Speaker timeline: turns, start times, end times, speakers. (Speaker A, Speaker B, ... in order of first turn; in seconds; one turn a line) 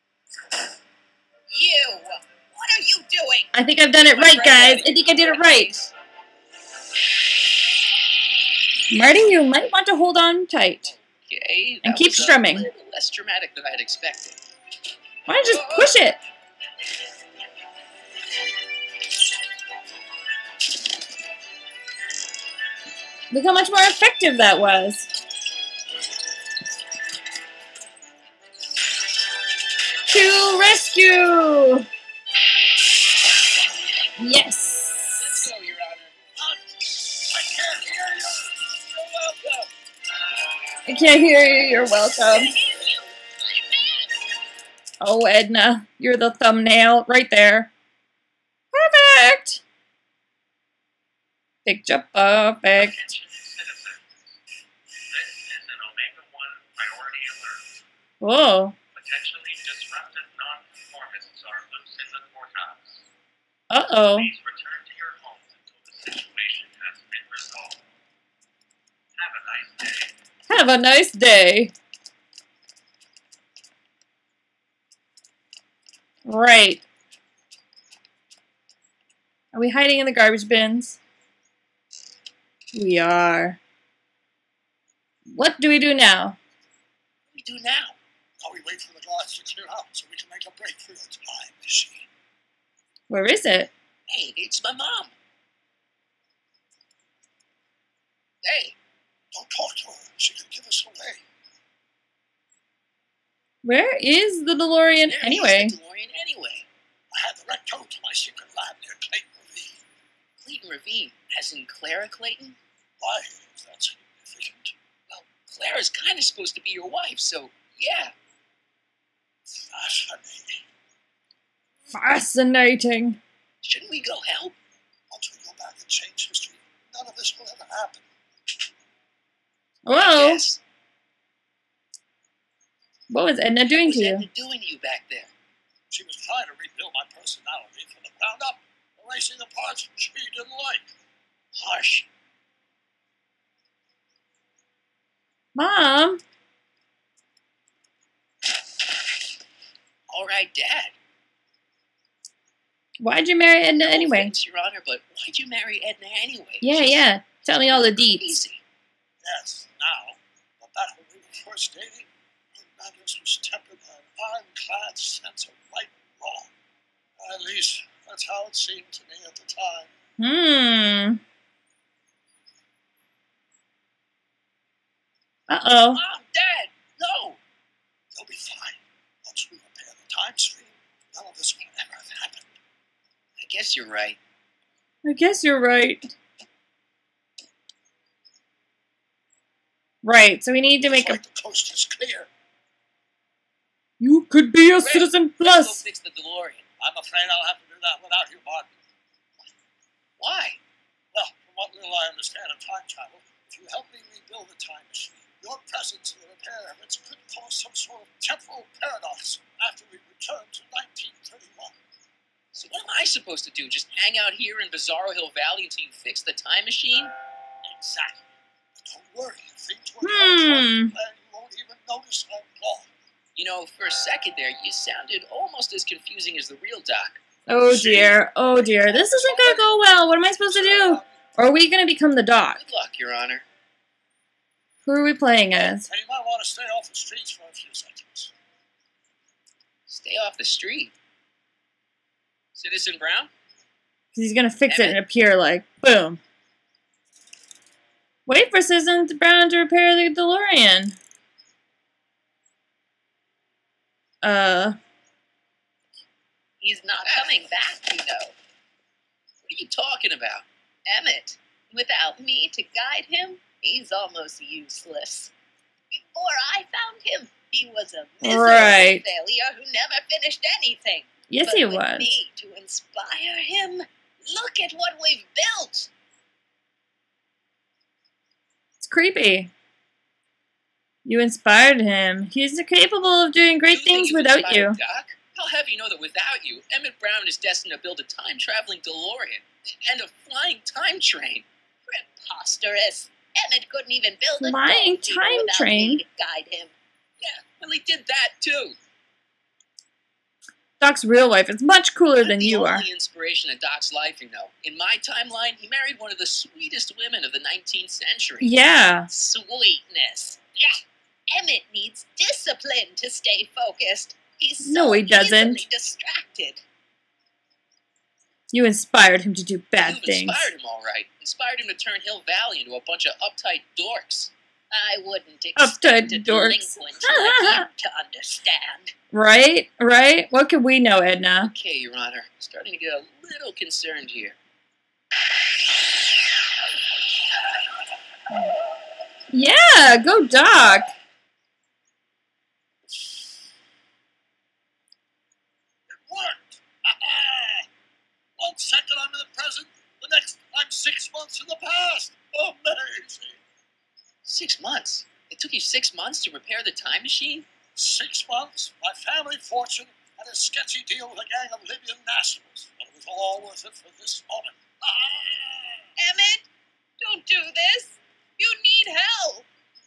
Speaker A: 1.5-3.5
Speaker B: 3.5-5.7
Speaker A: 4.2-4.9
Speaker C: 4.3-5.2
Speaker B: 8.9-10.9
Speaker C: 10.8-14.4
Speaker B: 11.8-12.7
Speaker B: 15.3-16.2
Speaker C: 15.3-16.0
Speaker B: 23.3-25.1
Speaker B: 30.1-31.9
Speaker B: 34.2-35.4
Speaker C: 35.2-36.2
Speaker D: 36.4-38.6
Speaker C: 38.8-39.7
Speaker B: 40.9-42.5
Speaker B: 45.0-47.7
Speaker B: 48.7-49.6
Speaker B: 51.6-53.1
Speaker E: 52.7-54.3
Speaker E: 55.0-57.8
Speaker B: 58.2-58.8
Speaker E: 58.9-63.0
Speaker B: 63.7-64.3
Speaker E: 64.1-67.8
Speaker E: 69.2-70.2
Speaker B: 70.5-71.7
Speaker B: 76.2-76.8
Speaker B: 79.5-81.0
Speaker B: 82.7-83.6
Speaker B: 85.3-86.4
Speaker C: 87.3-88.0
Speaker D: 88.4-92.1
Speaker B: 93.1-93.7
Speaker C: 94.1-95.1
Speaker C: 98.4-98.8
Speaker D: 99.3-101.2
Speaker B: 103.6-105.8
Speaker C: 105.1-106.7
Speaker D: 107.1-109.8
Speaker C: 110.4-112.6
Speaker D: 113.0-114.7
Speaker C: 115.1-118.1
Speaker D: 119.5-120.6
Speaker B: 121.9-123.2
Speaker C: 123.6-124.6
Speaker D: 125.1-128.1
Speaker B: 129.8-130.4
Speaker C: 129.9-130.6
Speaker B: 133.1-134.2
Speaker C: 133.7-135.3
Speaker D: 135.9-140.9
Speaker C: 141.6-142.0
Speaker B: 145.5-146.2
Speaker C: 150.1-150.9
Speaker B: 153.0-154.3
Speaker C: 153.8-157.1
Speaker B: 156.6-158.4
Speaker C: 157.7-158.6
Speaker D: 159.2-166.5
Speaker D: 167.2-169.9
Speaker B: 170.2-171.2
Speaker B: 175.5-176.0
Speaker C: 175.9-177.4
Speaker D: 178.1-182.5
Speaker C: 183.4-184.2
Speaker B: 185.0-186.1
Speaker B: 190.0-191.2
Speaker D: 190.8-192.3
Speaker B: 194.0-195.8
Speaker C: 194.8-196.7
Speaker D: 196.8-198.8
Speaker C: 200.2-200.6
Speaker D: 201.1-211.8
Speaker C: 212.5-217.1
Speaker D: 217.6-222.9
Speaker B: 220.0-220.9
Speaker C: 223.3-227.2
Speaker B: 227.5-232.6
Speaker D: 227.7-229.7
Speaker D: 230.4-231.2
Speaker C: 232.5-233.4
Speaker B: 234.8-235.9
Speaker D: 235.5-238.3
Speaker C: 239.9-240.9
Speaker C: 242.5-243.3
Speaker B: 244.1-246.2
Speaker C: 244.7-245.0
Speaker B: 248.2-251.0
Speaker B: 254.2-254.8
Speaker A: 256.6-258.4
Speaker C: 257.0-257.3
Speaker C: 259.4-260.5
Speaker A: 260.9-265.3
Speaker A: 265.9-275.9
Speaker B: 268.2-269.0
Speaker B: 271.3-272.1
Speaker B: 278.8-279.5
Speaker B: 281.1-284.8
Speaker C: 283.7-291.5
Speaker A: 291.9-296.7
Speaker B: 294.4-296.0
Speaker C: 297.2-298.8
Speaker B: 300.8-302.9
Speaker C: 302.2-308.5
Speaker B: 308.4-309.1
Speaker A: 309.1-310.7
Speaker A: 311.3-316.6
Speaker B: 314.6-315.6
Speaker B: 318.5-320.5
Speaker C: 319.8-324.3
Speaker A: 324.7-328.9
Speaker B: 325.6-327.6
Speaker B: 329.1-331.5
Speaker C: 331.4-334.4
Speaker B: 339.3-340.9
Speaker D: 345.9-347.7
Speaker D: 348.4-353.4
Speaker C: 354.2-357.5
Speaker D: 357.8-365.9
Speaker A: 366.0-366.5
Speaker A: 367.0-369.5